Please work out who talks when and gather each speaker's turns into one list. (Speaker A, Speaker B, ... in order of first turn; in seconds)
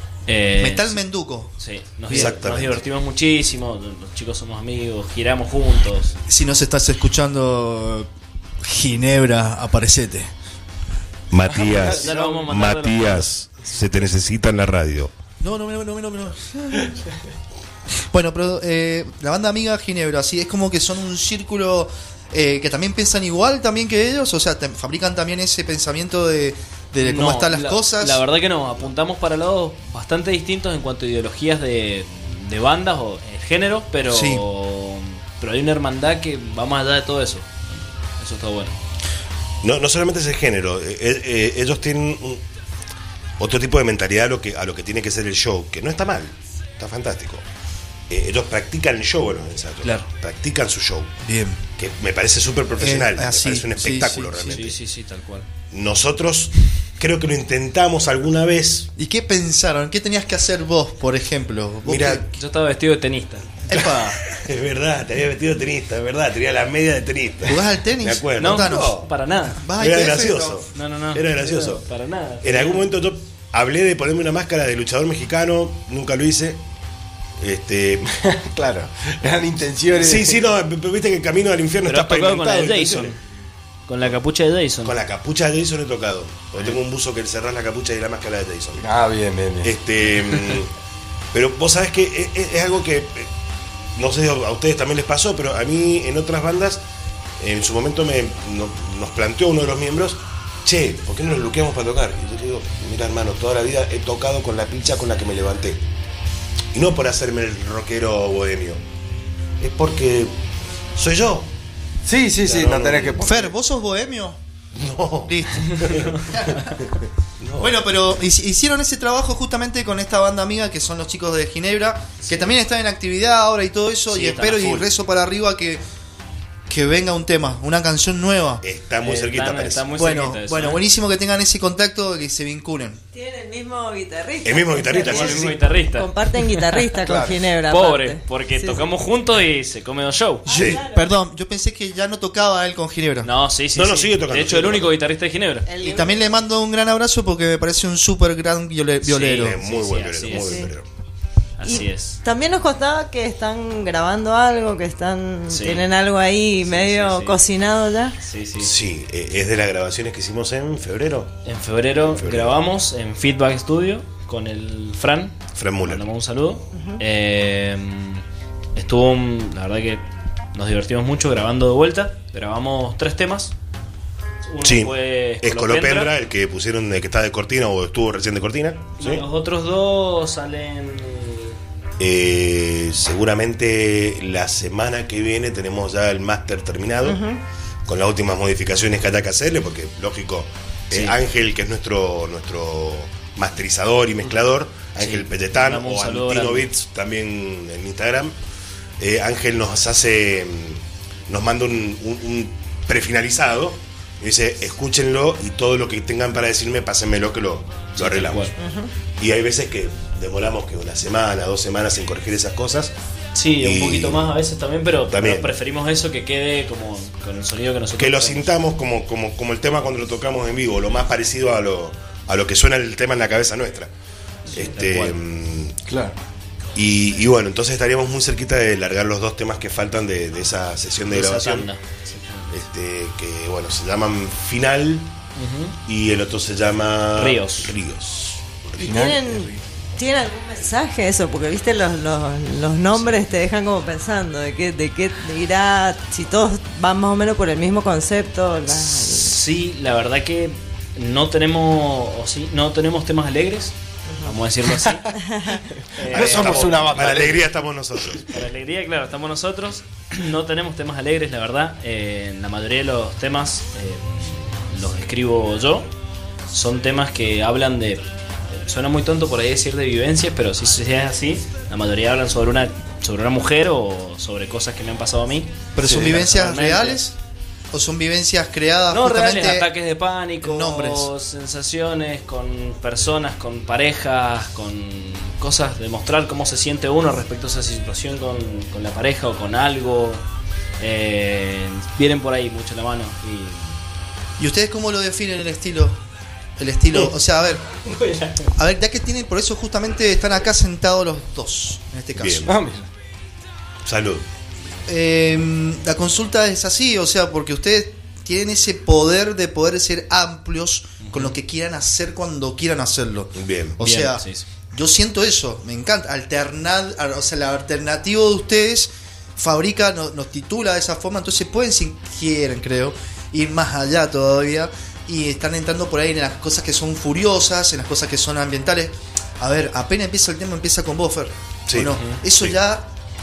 Speaker A: 0.3-1.0, 1.6-6.2, 11.5-13.3, 27.0-38.8, 49.8-50.1, 54.4-55.5, 62.3-64.2, 68.4-69.6, 70.7-72.9, 81.9-83.2, 83.9-85.0, 122.2-122.5, 124.1-124.9, 129.0-130.8, 135.0-137.0, 137.6-140.5, 143.2-145.7, 149.1-150.7, 151.6-152.2, 155.5-155.9, 156.6-157.4, 158.2-158.7, 161.4-168.2, 168.8-170.0, 170.5-173.5, 174.4-176.1, 179.0-181.6, 190.9-191.2, 195.0-196.7, 207.9-208.5, 213.3-218.5, 224.5-225.2, 231.1-232.6, 235.4-235.8, 237.2-237.7, 242.9-243.2, 248.9-255.1, 255.9-257.3, 258.3-265.9, 266.5-277.0, 278.9-290.2, 290.8-293.8, 297.9-298.5, 311.0-311.4, 313.8-314.5, 331.9-332.2
Speaker B: 0.6-1.5, 2.1-2.4, 6.3-8.1, 8.6-10.3, 15.4-17.0, 18.1-28.2, 34.1-34.4, 51.2-51.6, 52.8-54.6, 59.0-62.3, 63.7-64.2, 67.5-70.7, 113.2-114.4, 115.3-116.8, 117.6-125.8, 126.7-128.6, 129.9-133.0, 140.6-143.3, 145.8-149.6, 275.8-277.1, 277.7-279.7, 280.4-281.1, 294.4-296.0, 296.6-297.6, 298.5-302.5, 304.9-332.9
Speaker C: 2.1-2.8, 11.3-15.1, 39.6-42.4, 43.4-47.4, 48.1-51.1, 51.8-54.8, 55.7-58.9, 61.9-62.2, 63.8-69.1, 69.8-71.9, 72.4-76.6, 77.4-78.1, 79.9-83.2, 84.8-88.8, 89.6-90.7, 91.3-93.3, 94.0-96.8, 97.4-105.8, 106.7-108.8, 109.6-110.3, 111.0-111.5, 112.4-113.2, 114.8-116.8, 117.4-117.8, 128.6-129.8, 134.4-135.6, 140.5-140.8, 143.8-144.9, 149.1-150.8, 158.6-161.4, 162.1-162.6, 165.6-166.0, 174.6-179.2, 182.0-187.2, 187.9-198.3, 199.0-208.5, 209.2-212.9, 213.6-214.2, 215.1-215.5, 218.0-223.9, 224.5-225.8, 226.8-231.7, 232.5-235.1, 235.9-239.1, 256.1-258.3, 302.2-302.5, 303.9-304.2, 313.4-313.8, 331.7-332.6
Speaker D: 11.5-12.5, 78.1-80.4, 88.8-89.7, 112.0-113.5, 137.0-137.4, 225.9-226.2, 238.8-239.4, 256.0-257.5, 275.8-276.2, 302.4-302.9
Speaker E: 133.1-138.8, 140.5-141.1, 145.7-146.3, 150.3-150.7, 151.7-158.2, 166.8-167.0, 187.0-187.4, 208.6-208.9, 238.8-249.3, 255.1-255.6